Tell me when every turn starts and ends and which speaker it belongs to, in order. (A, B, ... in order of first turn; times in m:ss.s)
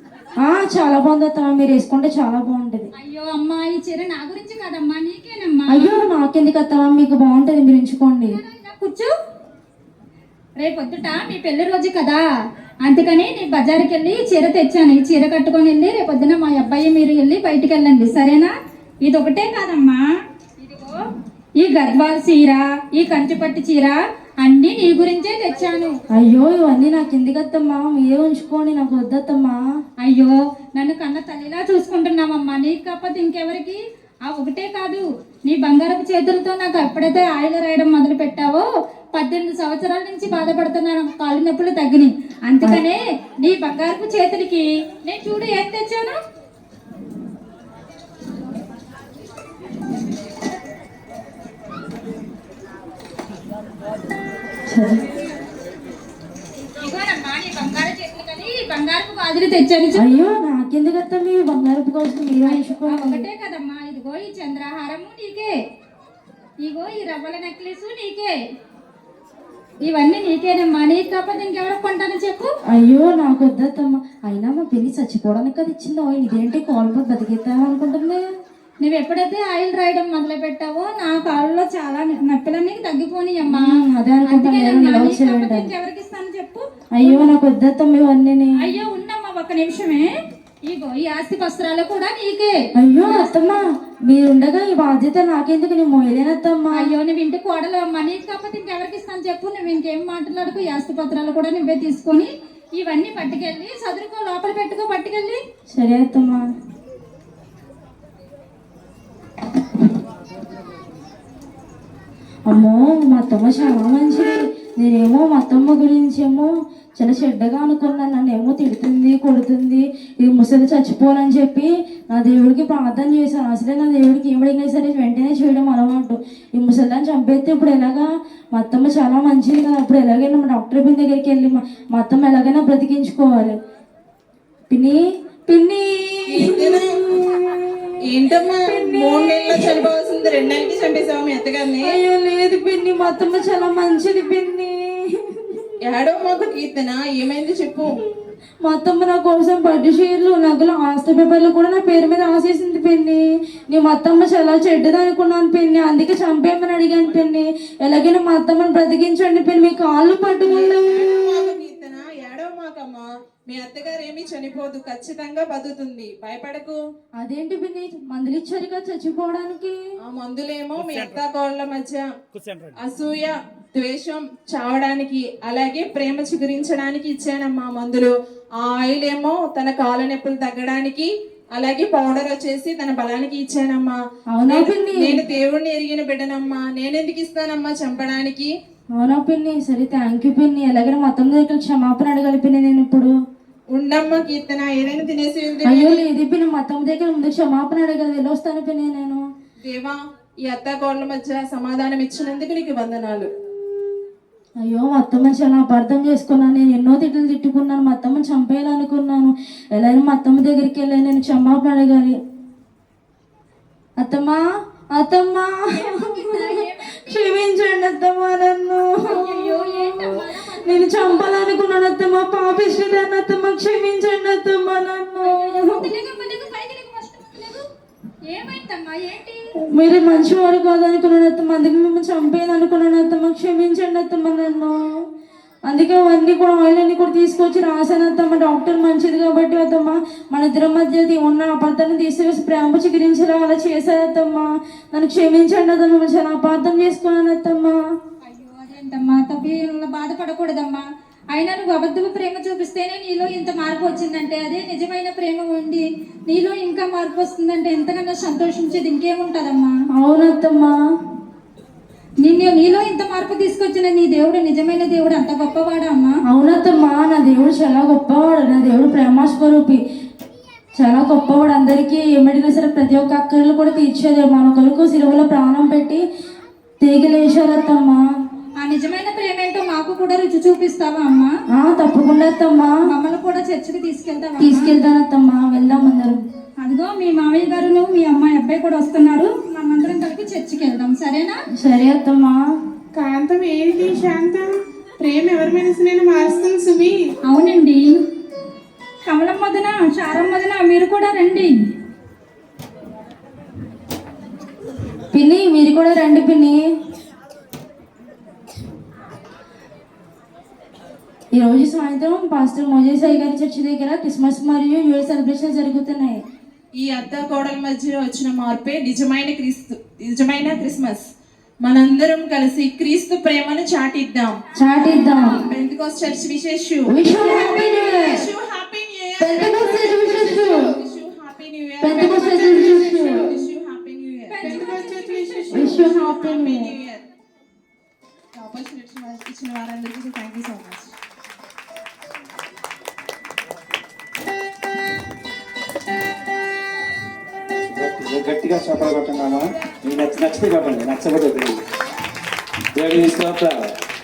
0:00.4-0:02.9 A
0:03.0-0:06.0 B
0:05.7-0:08.4 A
0:08.3-0:09.1 B
0:10.6-0:12.2 B
0:12.8-0:20.0 B
0:20.6-0:21.0 B
0:21.6-0:26.0 B
0:26.1-0:29.6 A
0:30.0-0:46.2 B
0:54.7-0:55.1 A
0:56.8-1:00.0 B
1:00.0-1:03.3 A
1:02.5-1:05.6 B
1:06.6-1:08.4 B
1:09.8-1:12.5 B
1:12.7-1:18.2 A
1:18.8-1:23.8 B
1:23.5-1:25.7 A
1:24.3-1:27.3 B
1:27.0-1:28.7 A
1:28.6-1:30.1 B
1:30.7-1:33.3 B
1:32.8-1:36.9 A
1:36.8-1:45.4 B
1:45.7-1:46.5 A
1:52.5-2:13.6 A
2:14.7-2:18.0 A
2:16.3-2:17.0 C
2:18.0-2:22.0 C
2:18.6-2:19.9 A
2:21.8-2:25.7 A
2:25.8-2:28.0 C
2:28.6-2:41.5 A
2:40.4-2:46.8 C
2:47.2-2:49.8 A
2:50.0-2:52.1 C
2:52.8-3:08.5 C
3:04.3-3:05.2 A
3:09.0-3:13.1 A
3:13.7-3:16.0 C
3:15.6-3:19.3 A
3:19.6-3:23.3 C
3:24.6-3:32.2 A
3:34.0-3:34.4 A
3:34.9-3:45.9 A
3:35.7-3:37.0 B
3:39.0-3:41.3 B
3:45.2-3:47.7 B
3:48.3-3:49.4 B
3:49.7-3:54.9 A
3:55.7-4:07.8 A
4:08.2-4:19.7 B
4:19.9-4:20.7 A
4:22.2-4:26.2 B
4:26.3-4:29.8 A
4:30.8-4:36.0 A
4:36.8-4:38.0 A
4:38.6-4:41.3 B
4:41.5-4:42.8 A
4:42.9-4:44.8 B
4:44.4-4:46.2 A
4:46.6-4:51.4 B
4:51.6-4:52.4 A
4:53.0-4:54.5 D
4:55.0-4:57.0 D
4:57.3-4:57.8 B
4:59.1-5:01.5 B
5:05.1-5:06.6 A
5:11.4-5:16.2 A
5:16.8-5:21.1 C
5:21.6-5:24.4 C
5:24.6-5:25.4 A
5:25.4-5:37.0 C
5:26.9-5:28.3 A
5:29.2-5:30.7 A
5:31.8-5:33.4 A
5:34.3-5:35.8 B
5:34.5-5:35.2 D
5:35.5-5:36.7 A
5:38.3-5:40.9 C
5:47.7-5:51.6 E
5:52.7-5:53.6 E